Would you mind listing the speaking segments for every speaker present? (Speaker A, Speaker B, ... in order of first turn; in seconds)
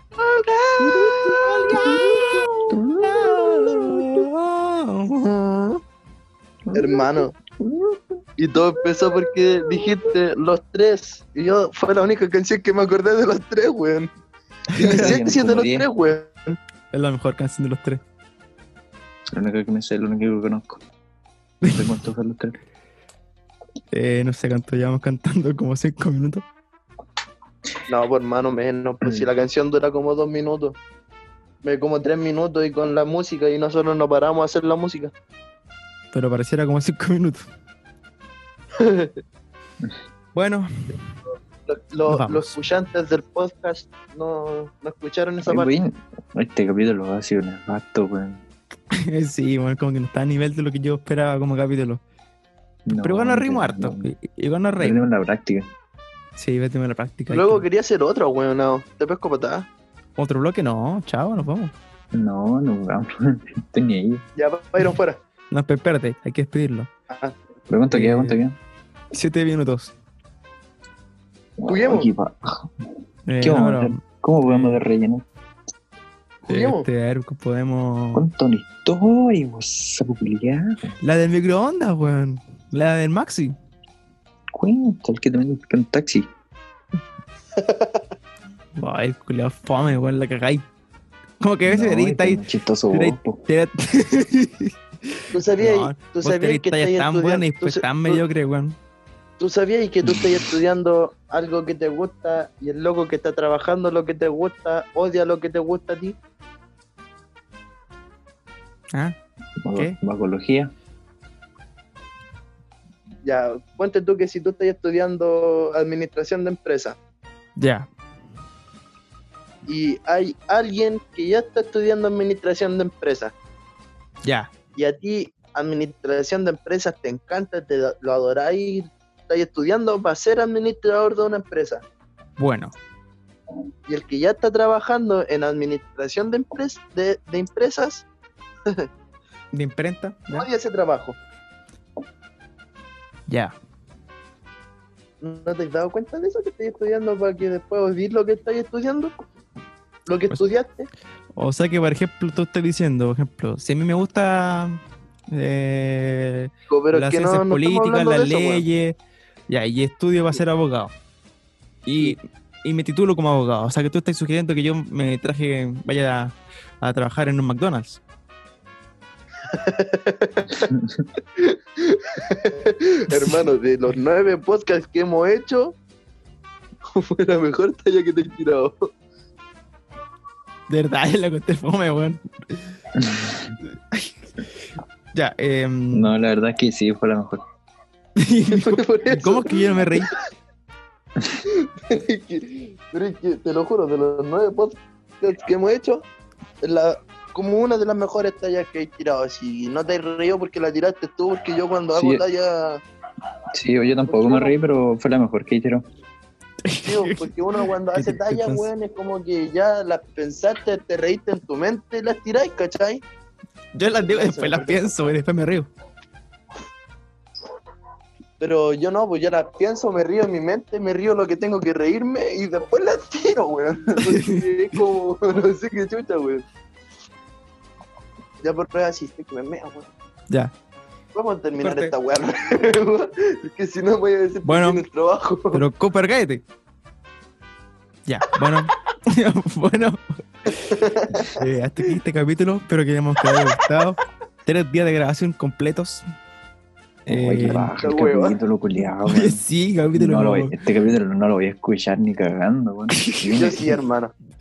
Speaker A: 0.2-2.7, 6.7-7.3, 8.4-14.1, 14.8-16.6, 27.9-30.8, 31.6-35.1, 38.8-39.2, 41.7-45.7, 57.3-59.7, 64.4-65.2, 67.1-67.4, 71.7-72.1, 76.5-76.9, 87.6-88.0, 95.3-98.2, 99.4-106.2, 113.2-117.0, 119.7-123.3, 124.8-131.8, 133.9-138.1, 140.3-141.2, 145.2-149.1, 150.1-150.9, 156.7-158.6, 169.5-170.7, 171.4-175.8, 176.9-178.8, 188.5-190.0, 191.5-196.1, 196.6-202.8, 204.1-204.6, 206.8-213.0, 214.0-215.1, 218.4-226.4, 228.4-229.9, 231.1-235.6, 240.6-241.4, 247.8-248.4, 253.3-254.1
Speaker B: 0.8-2.5, 3.0-5.8, 14.7-15.2, 16.9-18.0, 23.9-26.4, 36.1-37.5, 40.4-41.0, 42.1-42.6, 48.9-52.0, 53.0-55.0, 56.4-57.6, 60.2-61.7, 65.5-66.9, 67.9-68.4, 69.1-69.9, 73.3-74.8, 76.5-78.3, 81.0-83.5, 88.8-90.7, 91.4-98.8, 117.6-117.9, 124.2-124.5, 132.4-132.7, 139.5-140.5, 143.3-143.6, 151.4-154.8, 155.3-159.0, 159.5-160.9, 161.8-168.0, 173.2-173.4, 180.7-182.2, 185.1-186.1, 188.2-190.1, 206.6-208.7, 213.7-215.7, 224.0-224.4, 231.6-231.9, 234.4-234.8, 235.5-236.4, 238.1-246.0, 247.1-247.7, 249.1-250.5, 253.0-253.6
Speaker C: 1.7-4.3, 6.7-8.2, 14.8-15.9, 19.3-20.8, 21.7-22.6, 45.5-48.4, 52.9-54.1, 54.8-55.7, 62.1-64.3, 67.7-68.6, 71.6-72.7, 73.4-75.2, 78.1-80.9, 84.5-86.3, 91.7-93.4, 100.0-100.4, 109.6-110.7, 182.9-183.6, 185.9-187.4, 201.9-202.2, 203.5-205.9, 247.1-253.8